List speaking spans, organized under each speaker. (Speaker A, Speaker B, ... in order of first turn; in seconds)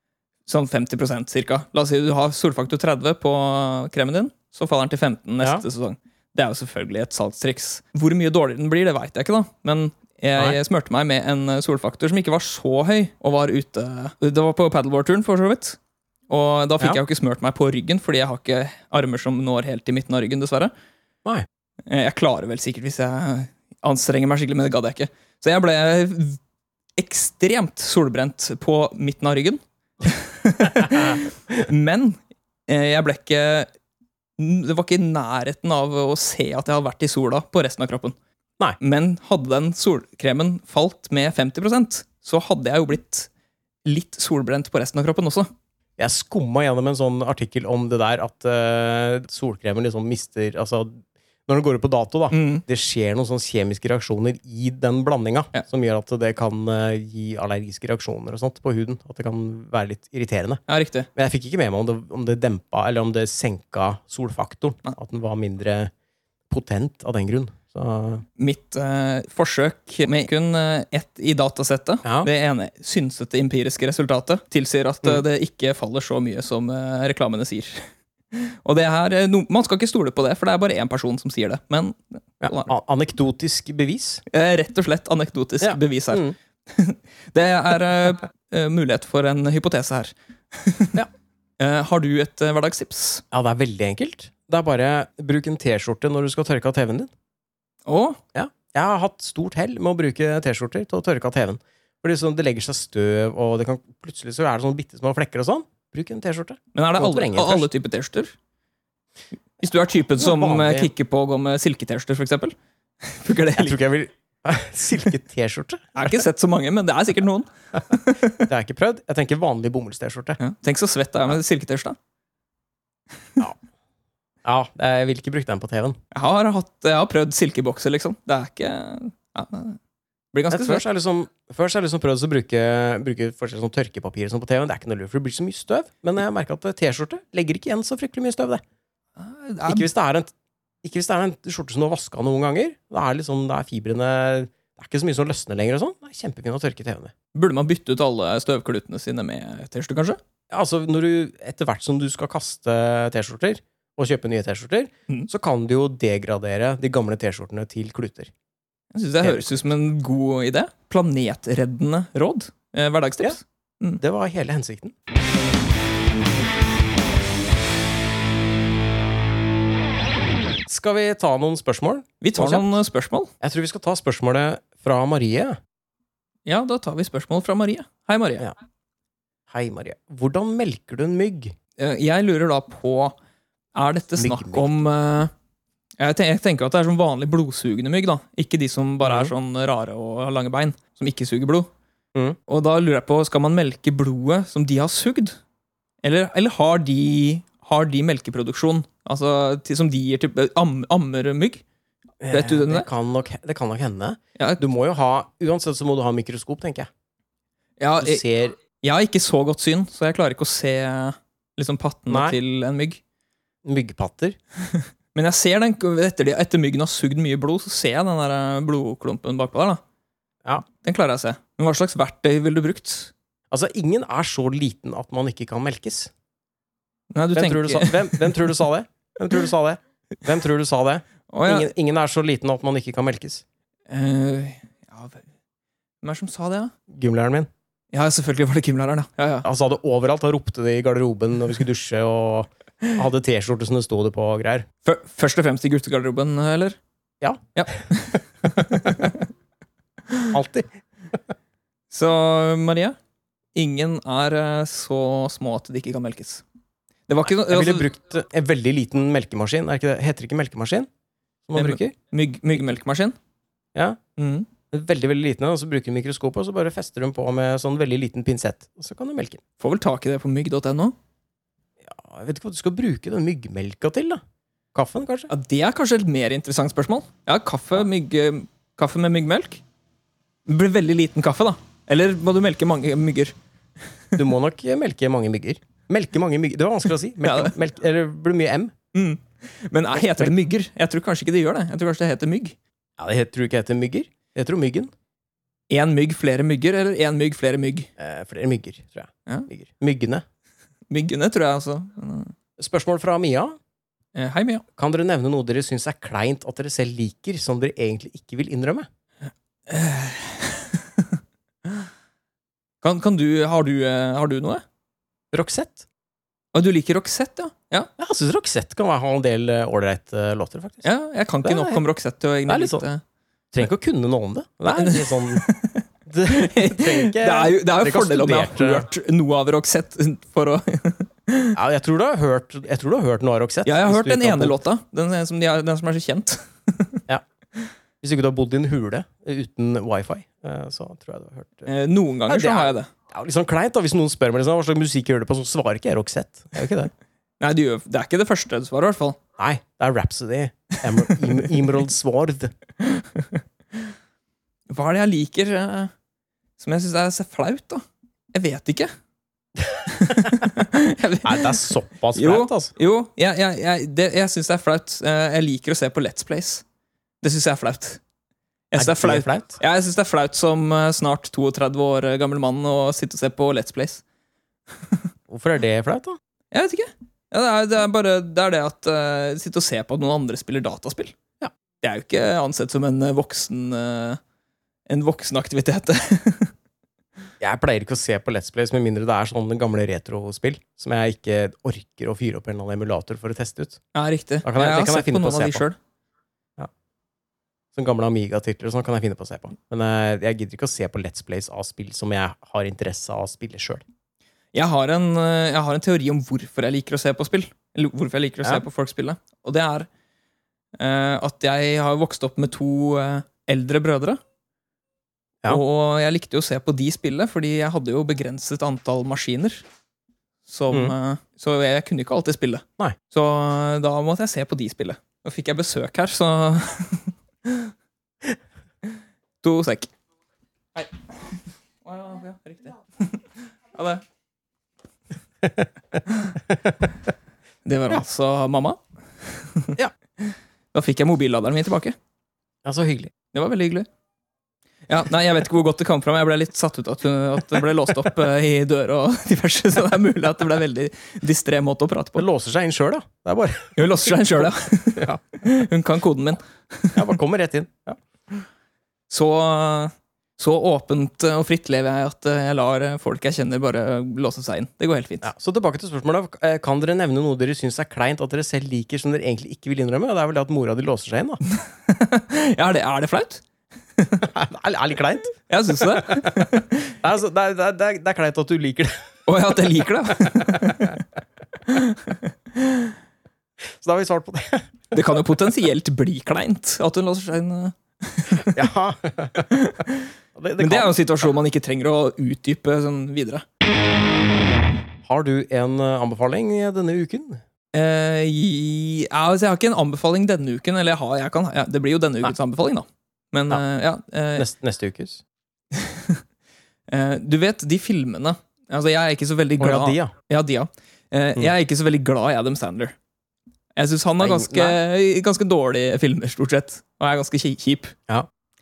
Speaker A: 0.5-15.8, 16.3-20.7, 21.9-26.4, 27.0-33.7, 34.4-38.1, 38.8-43.3, 43.9-45.5, 52.3-52.6, 60.7-61.1, 68.4-82.7, 84.3-91.0, 91.6-93.2, 97.9-98.2, 106.7-108.3, 109.6-113.8, 116.0-118.5, 120.4-122.0, 126.1-129.8, 130.3-130.8, 139.2-139.9, 147.3-150.2, 158.9-164.0, 172.2-173.3, 176.5-178.5, 181.8-183.2, 183.8-185.3, 186.0-191.7, 192.5-195.4, 196.0-201.6, 202.3-202.9, 207.8-208.2, 208.8-213.0, 214.7-219.8, 220.7-223.1, 227.1-228.4, 231.3-231.7, 233.9-235.3, 236.0-236.7, 237.9-239.5, 244.8-246.8, 247.6-249.2, 251.9-253.0, 253.6-256.4, 257.1-257.9, 261.6-263.2, 264.2-264.5, 269.6-270.9, 275.3-279.6, 280.5-283.3, 287.2-287.5, 288.9-292.6, 295.7-297.9, 300.9-302.3, 304.1-304.6, 309.7-311.2, 312.8-314.6, 316.5-317.9, 320.8-323.0, 324.7-331.6, 333.6-337.0, 341.7-342.9, 347.4-349.2, 352.8-353.4, 354.7-355.9, 356.6-358.9, 359.9-366.6, 367.2-368.0, 368.7-374.0, 376.5-381.1, 381.8-384.2, 384.9-386.5, 393.9-395.8, 404.5-409.9, 410.8-414.2, 415.5-419.6, 420.5-427.7, 429.4-429.9, 430.8-434.0, 436.1-436.4, 437.6-441.9, 443.3-443.9, 444.9-452.2, 453.8-457.0, 459.1-465.3, 471.5-473.4, 474.0-474.2, 475.5-476.9, 479.3-481.0, 481.7-482.9, 484.9-488.7, 489.5-490.1, 490.6-493.4, 497.7-504.5, 505.8-506.2, 506.9-513.0, 513.8-517.9
Speaker B: 46.0-60.6, 61.1-65.9, 66.5-68.2, 72.0-72.3, 82.4-84.2, 85.6-86.3, 93.3-97.1, 98.3-107.7, 110.2-110.9, 113.6-115.9, 118.5-120.4, 124.4-126.0, 130.5-138.6, 139.7-140.3, 140.8-147.1, 150.5-158.3, 159.2-159.6, 164.0-165.0, 170.7-172.8, 173.4-175.6, 179.5-181.6, 184.2-184.8, 189.0-189.3, 202.2-206.9, 208.0-208.6, 212.1-212.4, 213.6-214.4, 223.5-226.1, 227.3-233.4, 236.9-237.5, 239.4-244.7, 250.3-250.8, 257.5-260.9, 261.5-261.9, 264.7-269.4, 271.8-274.2, 274.7-275.3, 284.2-288.7, 289.9-290.3, 293.0-294.9, 298.0-300.2, 302.6-303.6, 304.8-308.9, 315.3-315.9, 318.0-320.9, 321.4-321.8, 322.5-322.9, 323.5-325.4, 326.1-328.9, 331.5-334.6, 338.0-341.7, 342.3-346.9, 349.4-352.5, 361.2-362.7, 368.8-369.6, 375.3-376.2, 387.4-393.8, 394.4-395.6, 397.7-403.8, 442.6-443.1, 452.2-453.8, 456.9-458.0, 465.2-471.4, 474.2-476.5, 477.0-479.0, 480.4-480.8, 483.6-485.0, 488.5-489.5, 490.4-491.3, 495.0-497.4, 504.4-505.2, 509.6-510.1, 514.2-514.8